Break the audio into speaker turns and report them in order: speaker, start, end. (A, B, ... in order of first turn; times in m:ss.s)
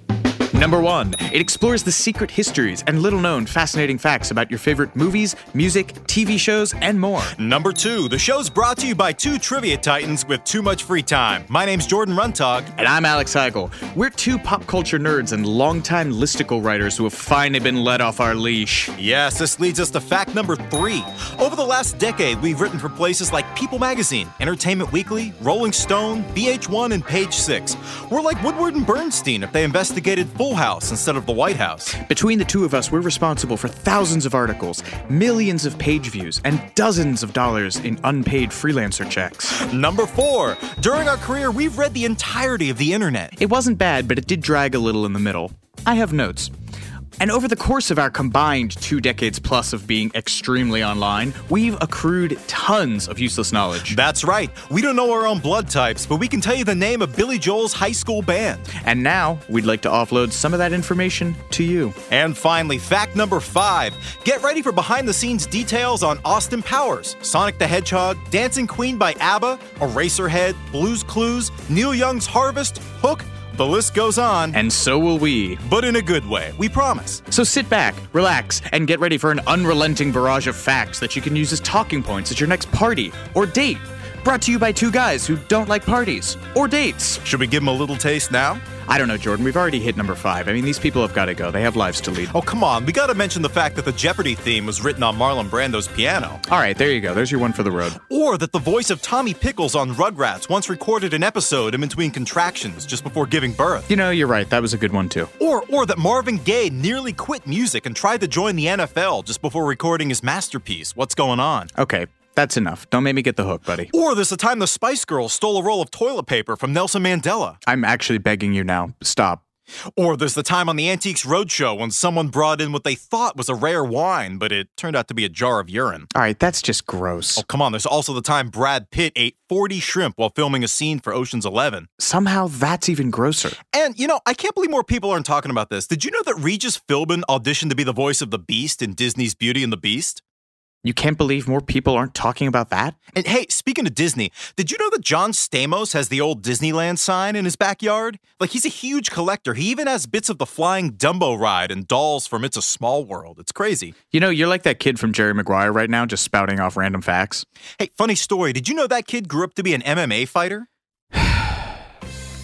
0:00.5-0:07.4 A
0:07.4-0:12.7 B
0:12.8-0:18.9 A
0:19.0-0:32.0 B
0:31.9-0:39.6 A
0:39.5-0:43.4 B
0:43.4-0:46.5 A
0:47.2-0:54.0 A
0:53.9-0:58.7 B
0:58.7-1:02.0 A
1:02.1-1:14.6 B
1:14.5-1:15.6 A
1:15.6-1:17.2 B
1:17.3-1:27.2 A
1:27.2-1:28.6 B
1:28.8-1:32.4 A
1:32.3-1:36.4 B
1:36.5-1:38.0 A
1:38.0-1:43.9 B
1:43.9-1:45.3 A
1:45.4-1:51.7 B
1:51.8-1:53.9 A
1:53.9-1:57.6 B
1:57.7-1:59.4 A
2:00.0-2:06.1 B
2:06.1-2:07.4 A
2:07.4-2:11.9 B
2:12.0-2:13.6 A
2:13.7-2:20.2 B
2:20.8-2:23.0 A
2:23.2-2:34.0 B
2:34.1-2:37.4 A
2:37.8-2:40.7 B
2:41.1-2:41.7 A